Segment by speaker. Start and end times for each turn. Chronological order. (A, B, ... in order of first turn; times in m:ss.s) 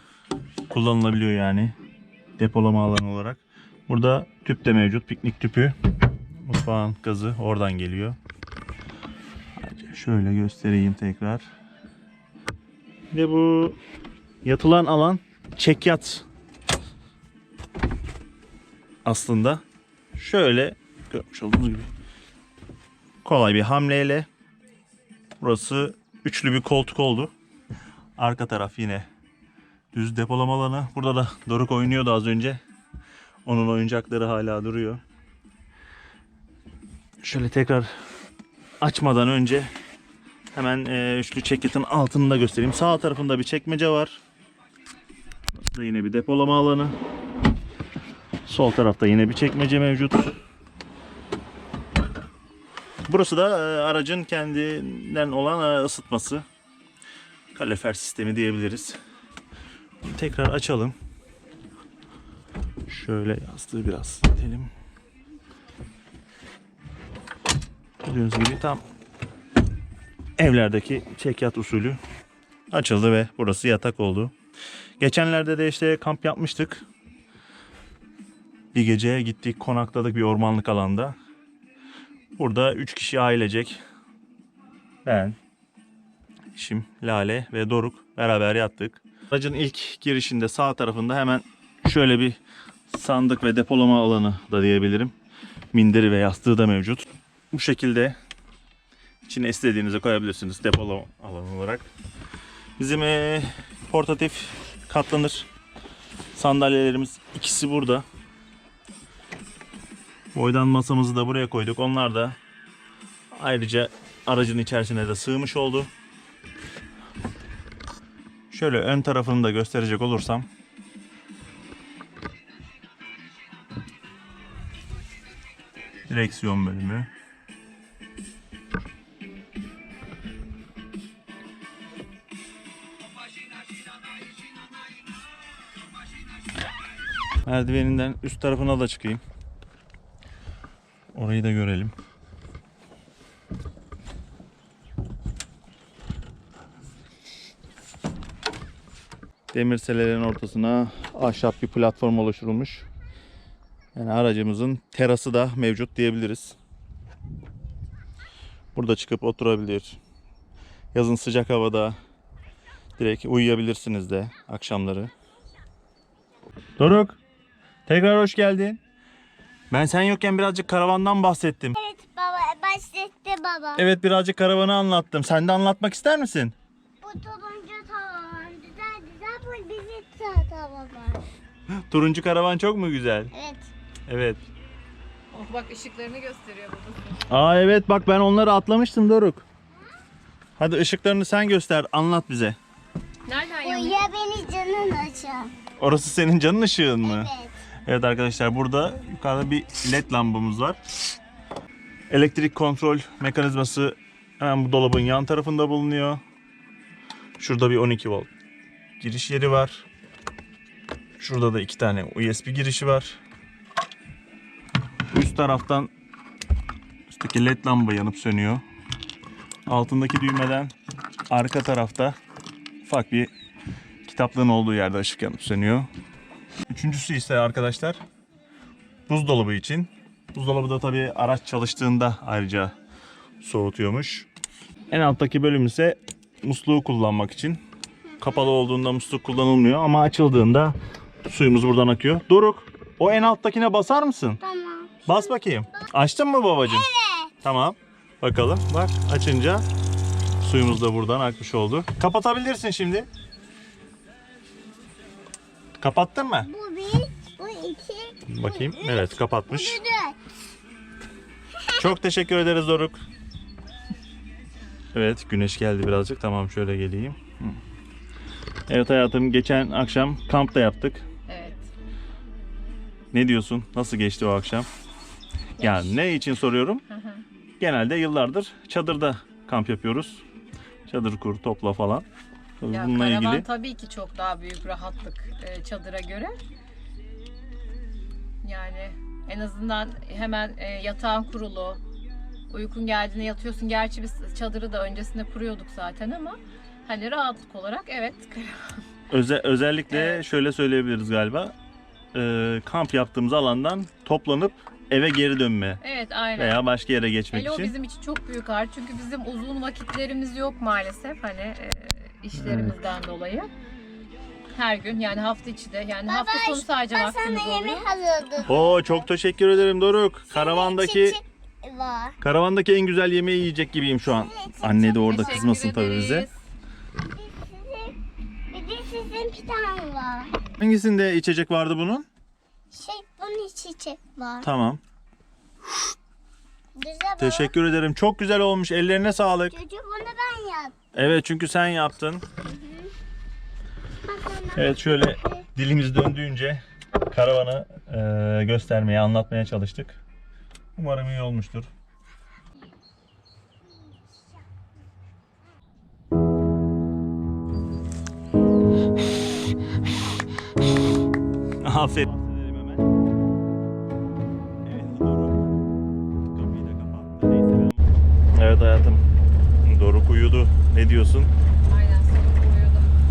0:00.7-0:01.7 A
0:02.4-0:05.7 A
0:06.4-0:08.2 A
0:09.6-0:11.4 A
0:13.1-0:13.8 A
0:14.4-0:16.2 A
0:19.0-0:19.6 A
0:20.1-0:21.9 A
0:23.2-0:24.3 A
0:25.4-0:27.3 A
0:28.2-0:29.1 A
0:29.9-0:32.6 A
0:33.4-0:35.0 A
0:37.2-0:37.9 A
0:38.8-0:39.7 A
0:40.5-0:44.2 A
0:45.6-0:47.0 A
0:48.4-0:50.4 A
0:53.1-0:56.4 A
0:57.5-0:59.0 A
1:00.0-1:01.0 A
1:02.9-1:04.7 A
1:08.0-1:08.8 A
1:10.4-1:12.0 A
1:12.7-1:14.3 A
1:15.0-1:16.8 A
1:18.7-1:21.1 A
1:22.4-1:23.8 A
1:25.0-1:25.4 A
1:26.5-1:35.1 A
1:35.7-1:38.2 A
1:39.3-1:41.9 A
1:42.8-1:45.5 A
1:46.3-1:48.0 A
1:50.3-1:52.4 A
1:53.3-1:55.9 A
1:58.5-2:00.5 A
2:06.1-2:07.1 A
2:17.4-2:19.2 A
2:21.1-2:21.9 A
2:29.5-2:32.8 A
2:33.9-2:36.6 A
2:38.7-2:40.0 A
2:40.9-2:42.0 A
2:43.0-2:45.1 A
2:46.8-2:47.2 A
2:47.8-2:48.8 A
2:49.7-2:51.8 A
2:51.8-2:53.9 B
2:53.7-2:56.5 A
2:57.0-3:01.2 B
3:01.9-3:03.3 A
3:03.3-3:03.7 B
3:04.1-3:04.4 A
3:05.3-3:07.4 C
3:07.3-3:09.4 A
3:10.6-3:12.6 A
3:13.2-3:14.0 C
3:13.6-3:15.5 B
3:15.8-3:17.3 A
3:17.0-3:17.6 B
3:17.8-3:20.8 A
3:22.1-3:26.2 A
3:27.4-3:28.3 A
3:29.0-3:29.8 A
3:31.2-3:33.2 A
3:35.1-3:35.9 A
3:37.1-3:38.6 A
3:39.7-3:40.7 A
3:41.3-3:42.2 A
3:42.8-3:43.3 A
3:44.0-3:45.9 A
3:46.7-3:48.0 A
3:49.1-3:52.7 A
3:53.4-3:54.3 A
3:54.9-3:57.6 A
3:58.1-3:58.4 B
3:58.2-4:04.4 A
4:04.4-4:05.2 B
4:05.1-4:06.9 A
4:06.7-4:07.3 B
4:07.4-4:09.6 A
4:10.4-4:13.1 A
4:15.8-4:16.5 A
4:16.4-4:20.2 B
4:18.3-4:19.8 A
4:21.6-4:21.8 B
4:21.7-4:23.0 A
4:24.9-4:27.6 A
4:28.7-4:31.0 A
4:31.3-4:31.7 C
4:33.1-4:34.7 A
4:35.6-4:36.8 A
4:36.9-4:37.2 C
4:37.6-4:40.2 A
4:40.9-4:42.0 A
4:42.6-4:43.5 A
4:42.7-4:46.4 C
4:48.4-4:51.8 C
4:52.5-4:58.8 C
4:59.1-5:01.5 A
4:59.9-5:00.2 C
5:02.1-5:05.8 A
5:05.8-5:06.6 C
5:06.4-5:07.7 A
5:07.3-5:13.5 C
5:12.3-5:12.8 A
5:14.5-5:17.9 C
5:16.1-5:19.0 B
5:18.4-5:21.2 A
5:20.3-5:22.1 B
5:22.2-5:26.3 A
5:24.0-5:25.4 B
5:25.1-5:26.4 C
5:27.0-5:27.9 B
5:28.5-5:30.3 B
5:30.6-5:32.0 A
5:32.7-5:34.5 B
5:34.4-5:34.8 A
5:36.8-5:37.5 B
5:37.2-5:39.5 A
5:39.5-5:40.7 B
5:40.9-5:42.2 A
5:42.5-5:42.9 B
5:44.1-5:44.8 B
5:44.5-5:50.0 A
5:50.8-5:51.7 A
6:01.6-6:02.9 A
6:04.6-6:05.5 A
6:06.3-6:09.0 A
6:09.6-6:11.3 A
6:11.6-6:12.9 C